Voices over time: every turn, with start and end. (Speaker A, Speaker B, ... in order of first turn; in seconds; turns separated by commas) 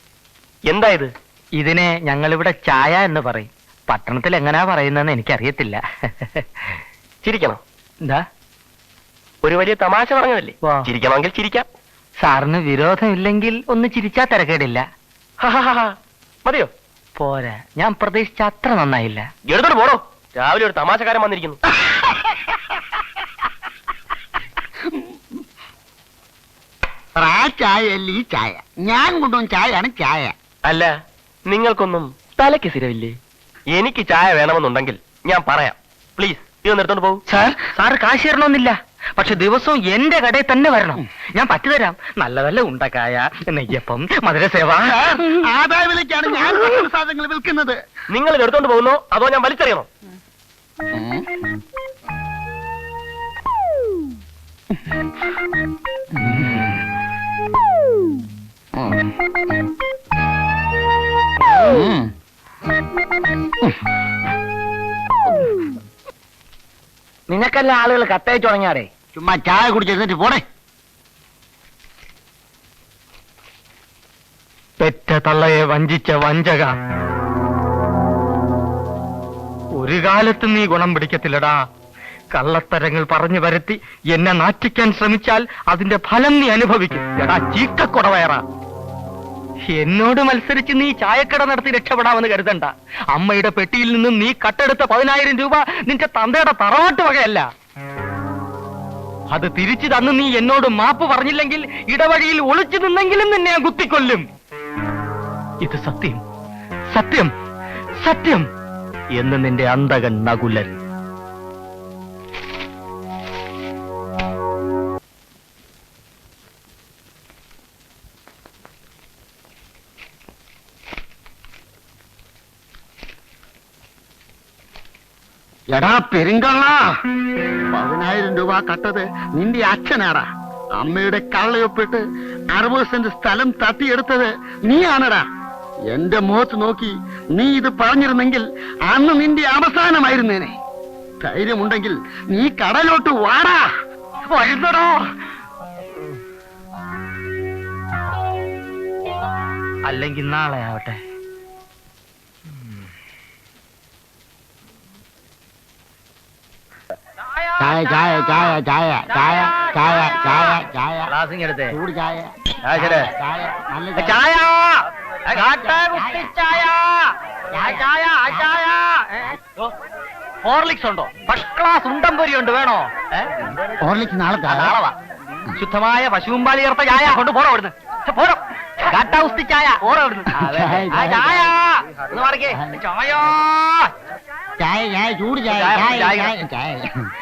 Speaker A: 0.7-1.1, Speaker B: 1.6-6.4, Speaker A: 7.2-7.6, Speaker A: 9.4-11.7, Speaker B: 12.2-14.8, Speaker A: 15.4-16.7, Speaker B: 17.2-19.3, Speaker A: 19.4-21.6, Speaker C: 27.2-30.3, Speaker A: 30.6-30.9, Speaker A: 31.5-33.1, Speaker A: 33.7-37.2, Speaker B: 37.3-45.0, Speaker C: 44.7-47.8, Speaker A: 48.1-49.9, Speaker C: 50.9-51.2, Speaker C: 56.2-56.7, Speaker C: 61.6-62.1, Speaker C: 69.1-70.4, Speaker B: 74.8-76.7, Speaker B: 79.8-81.6, Speaker B: 82.3-88.4, Speaker B: 89.7-97.5, Speaker B: 99.3-104.2, Speaker B: 105.6-106.2, Speaker B: 106.9-107.3, Speaker B: 108.0-108.5, Speaker B: 109.2-110.8, Speaker C: 125.7-126.8, Speaker C: 127.7-130.3, Speaker C: 130.8-132.0, Speaker C: 132.5-135.2, Speaker C: 135.9-140.5, Speaker C: 141.2-143.6, Speaker B: 144.3-145.0, Speaker B: 149.8-151.0, Speaker C: 157.6-161.1, Speaker B: 159.2-159.8, Speaker B: 161.1-161.7, Speaker C: 161.7-164.2, Speaker B: 162.7-163.1, Speaker B: 163.9-169.6, Speaker C: 165.6-166.3, Speaker C: 167.5-168.5, Speaker B: 170.4-173.3, Speaker C: 173.8-174.7, Speaker B: 174.5-174.9, Speaker B: 175.6-183.9, Speaker C: 180.4-181.5, Speaker C: 182.5-182.8, Speaker C: 184.6-186.9, Speaker B: 185.5-186.3